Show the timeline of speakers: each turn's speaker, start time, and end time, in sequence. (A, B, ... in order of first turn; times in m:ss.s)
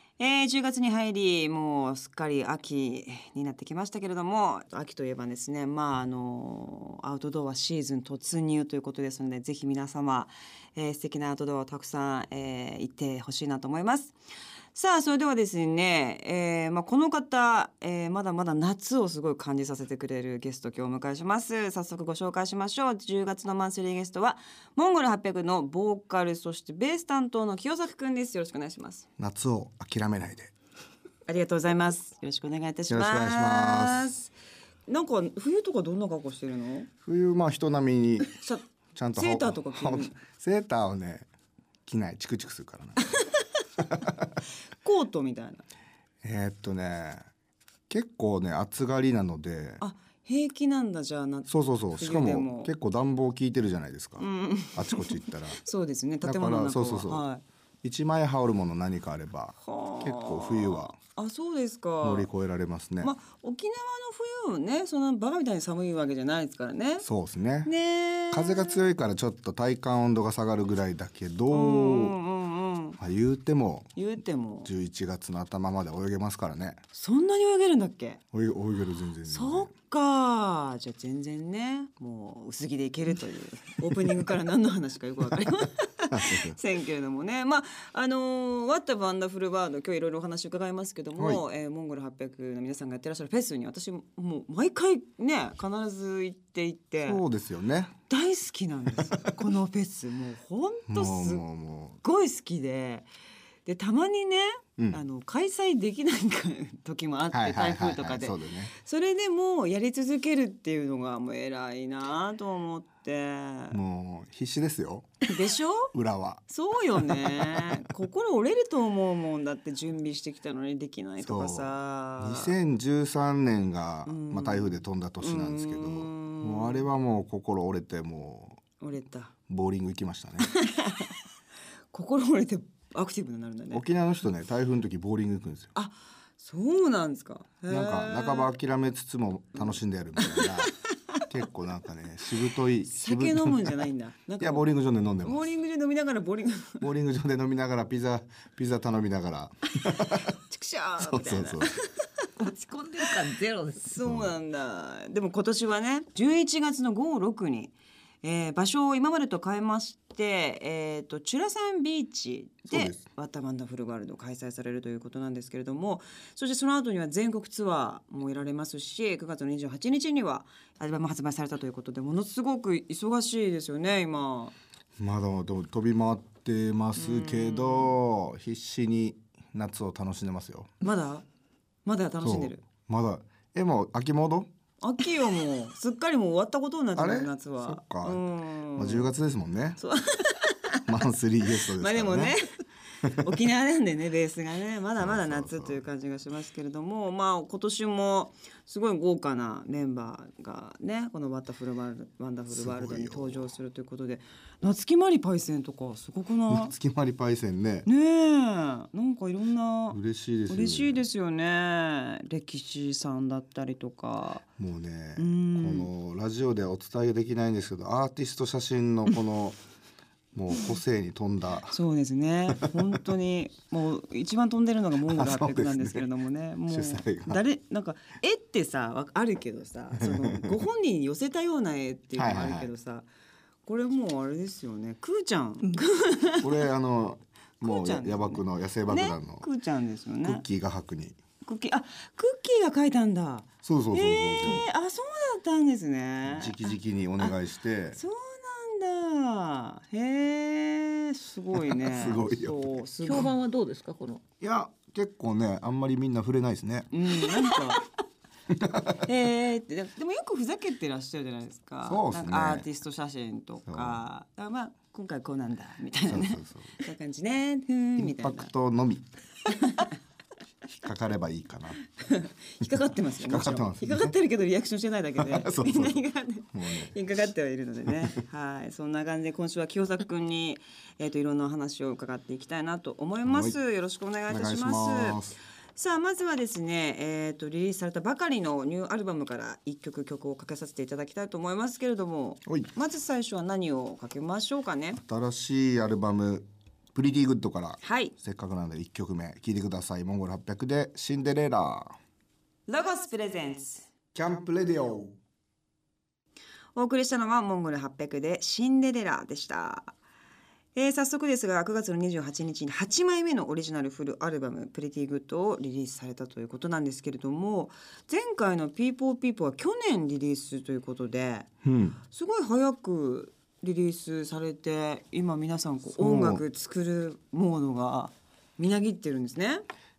0:00.2-0:14.2 A
0:14.7-0:29.1 A
0:29.2-0:30.5 B
0:31.3-0:34.3 A
0:32.9-0:34.2 B
0:34.9-0:36.9 A
0:37.0-0:38.3 B
0:38.3-0:38.6 A
0:39.0-0:41.3 B
0:39.2-0:40.2 A
0:41.9-0:43.0 B
0:43.9-0:44.3 B
0:44.8-0:45.6 A
0:46.2-0:47.2 B
0:47.9-0:49.8 B
0:49.8-0:52.7 A
0:51.5-0:55.6 B
0:54.2-0:57.4 A
0:56.2-0:57.2 B
0:57.8-1:00.9 B
0:59.6-1:02.3 A
1:02.0-1:03.1 B
1:03.0-1:07.1 A
1:07.0-1:07.7 B
1:07.6-1:08.9 A
1:08.3-1:12.2 B
1:11.5-1:13.0 A
1:13.0-1:14.0 B
1:14.0-1:14.7 A
1:14.6-1:16.8 B
1:16.9-1:18.2 A
1:18.3-1:19.7 B
1:19.2-1:37.2 A
1:26.1-1:26.6 B
1:31.2-1:31.4 B
1:37.1-1:37.9 B
1:38.1-1:41.4 A
1:40.9-1:42.0 B
1:42.0-1:43.1 A
1:43.6-1:53.8 A
1:47.3-1:48.7 B
1:53.7-1:55.3 B
1:55.3-1:55.9 A
1:55.9-1:56.4 B
1:56.5-2:02.5 A
1:57.0-1:57.8 B
2:01.2-2:08.6 B
2:04.1-2:06.8 A
2:08.8-2:09.3 A
2:09.5-2:10.5 B
2:10.4-2:11.2 A
2:11.9-2:13.8 A
2:13.7-2:15.7 B
2:15.8-2:18.5 A
2:17.7-2:20.7 B
2:19.6-2:21.2 A
2:21.3-2:23.7 B
2:22.8-2:24.7 A
2:24.4-2:25.4 B
2:25.2-2:26.8 A
2:26.8-2:30.3 B
2:30.3-2:32.3 A
2:31.0-2:31.7 B
2:32.4-2:34.0 C
2:33.8-2:54.6 A
2:34.0-2:34.4 B
2:42.7-2:43.0 B
2:55.0-3:00.7 B
2:57.0-2:58.0 A
3:00.8-3:01.2 A
3:01.8-3:02.6 A
3:02.2-3:04.5 B
3:04.8-3:09.1 A
3:07.0-3:08.2 B
3:08.8-3:09.8 B
3:09.8-3:10.9 A
3:10.9-3:12.4 B
3:11.6-3:26.7 A
3:15.0-3:15.8 B
3:22.5-3:23.4 B
3:26.5-3:27.9 B
3:27.9-3:34.4 A
3:29.9-3:31.0 B
3:34.6-3:39.6 B
3:35.2-3:35.9 A
3:40.4-3:41.8 B
3:41.7-3:53.1 A
3:45.1-3:46.1 B
3:46.7-3:47.4 B
3:50.0-3:50.6 B
3:52.2-3:52.7 B
3:53.6-3:56.5 A
3:56.4-3:59.5 B
3:57.6-4:00.4 A
4:00.2-4:01.2 B
4:01.4-4:07.3 A
4:03.6-4:04.6 B
4:06.3-4:08.0 B
4:08.0-4:13.3 A
4:11.5-4:12.8 B
4:13.0-4:14.2 C
4:14.4-4:17.7 B
4:16.9-4:17.8 A
4:18.5-4:19.1 B
4:19.0-4:28.5 A
4:21.8-4:22.7 B
4:23.7-4:24.0 B
4:26.1-4:26.8 B
4:28.0-4:29.2 B
4:29.5-4:29.9 A
4:30.7-4:31.8 B
4:32.0-4:45.2 A
4:32.6-4:34.1 B
4:35.2-4:37.0 B
4:37.9-4:38.2 B
4:43.2-4:43.6 B
4:44.3-4:45.4 B
4:45.8-4:55.0 A
4:55.0-5:02.0 B
4:57.8-4:58.1 A
5:02.7-5:03.9 A
5:04.2-5:05.2 B
5:06.8-5:09.9 A
5:10.8-5:21.5 A
5:21.6-5:22.0 B
5:22.0-5:29.6 A
5:26.0-5:26.4 B